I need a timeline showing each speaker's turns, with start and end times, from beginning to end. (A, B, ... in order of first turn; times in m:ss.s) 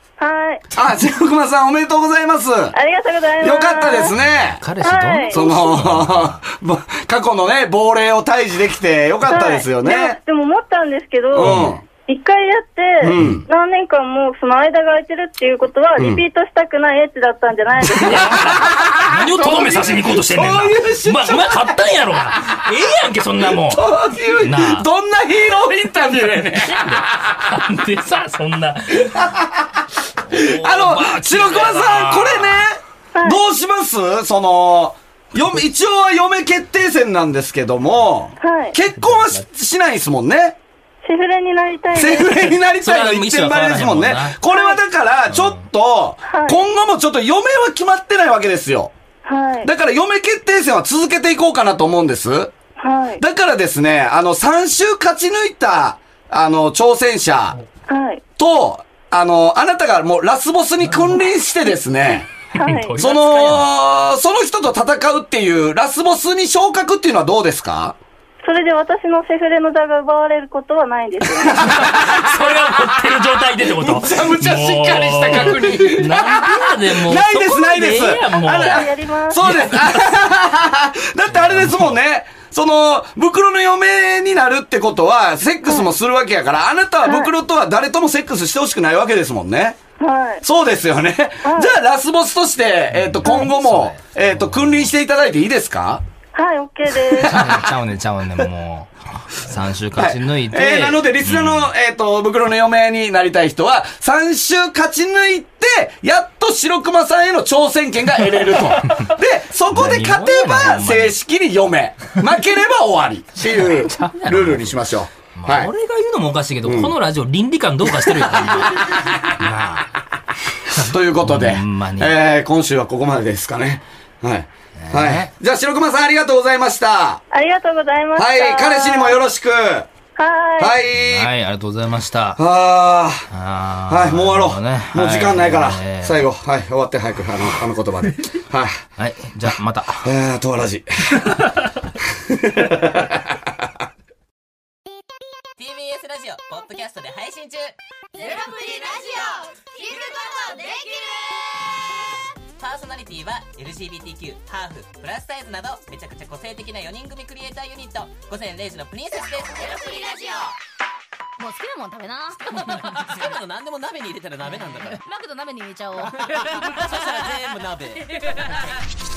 0:00.2-0:00.6 A
0:00.7-0:02.8 B
0:02.7-0:04.1 A
0:03.4-0:04.6 B
0:04.2-0:06.4 C
0:04.8-0:05.4 A
0:05.3-0:10.2 B
0:09.3-0:18.6 A
0:11.3-0:11.8 B
0:11.4-0:11.8 C
0:13.0-0:13.4 B
0:16.0-0:16.2 B
0:17.9-0:21.8 B
0:18.0-0:24.9 C
0:23.4-0:27.4 B
0:26.6-0:29.2 C
0:29.0-0:40.6 B
0:30.3-0:32.6 C
0:38.4-0:38.8 A
0:39.1-0:39.4 C
0:41.0-0:42.6 A
0:41.9-0:48.9 B
0:42.8-0:44.4 C
0:44.5-0:44.8 A
0:45.3-0:45.6 C
0:46.3-0:46.6 A
0:49.2-0:49.7 A
0:49.6-0:52.5 B
0:52.8-0:53.2 A
0:53.2-0:57.6 B
0:57.9-0:58.2 A
0:58.4-1:02.3 B
1:02.6-1:03.0 A
1:02.6-1:03.7 C
1:02.9-1:08.0 B
1:08.4-1:11.8 A
1:11.4-1:12.6 B
1:11.7-1:18.9 C
1:13.6-1:29.8 B
1:18.5-1:19.8 A
1:21.3-1:21.9 C
1:30.0-1:30.4 A
1:30.4-1:36.0 B
1:31.4-1:31.7 A
1:32.9-1:34.9 C
1:36.3-1:37.6 A
1:37.1-1:37.5 B
1:37.2-1:41.7 C
1:40.0-1:55.7 B
1:49.7-1:51.2 C
1:53.4-1:54.8 C
1:55.3-1:59.9 C
1:56.6-1:56.9 B
1:58.0-1:59.1 B
2:00.7-2:02.1 C
2:00.7-2:07.2 B
2:04.8-2:05.3 C
2:07.3-2:09.2 A
2:08.1-2:09.9 B
2:10.2-2:10.8 A
2:10.6-2:11.3 B
2:11.0-2:12.4 C
2:12.4-2:13.3 B
2:13.3-2:16.2 C
2:13.9-2:18.8 B
2:19.0-2:20.1 C
2:20.0-2:21.6 B
2:22.2-2:23.6 B
2:25.6-2:31.4 D
2:28.2-2:31.2 E
2:32.6-2:40.6 D
2:39.6-2:40.4 E
2:41.4-2:43.3 E
2:42.5-2:45.0 D
2:44.5-2:47.3 E
2:46.2-2:48.7 D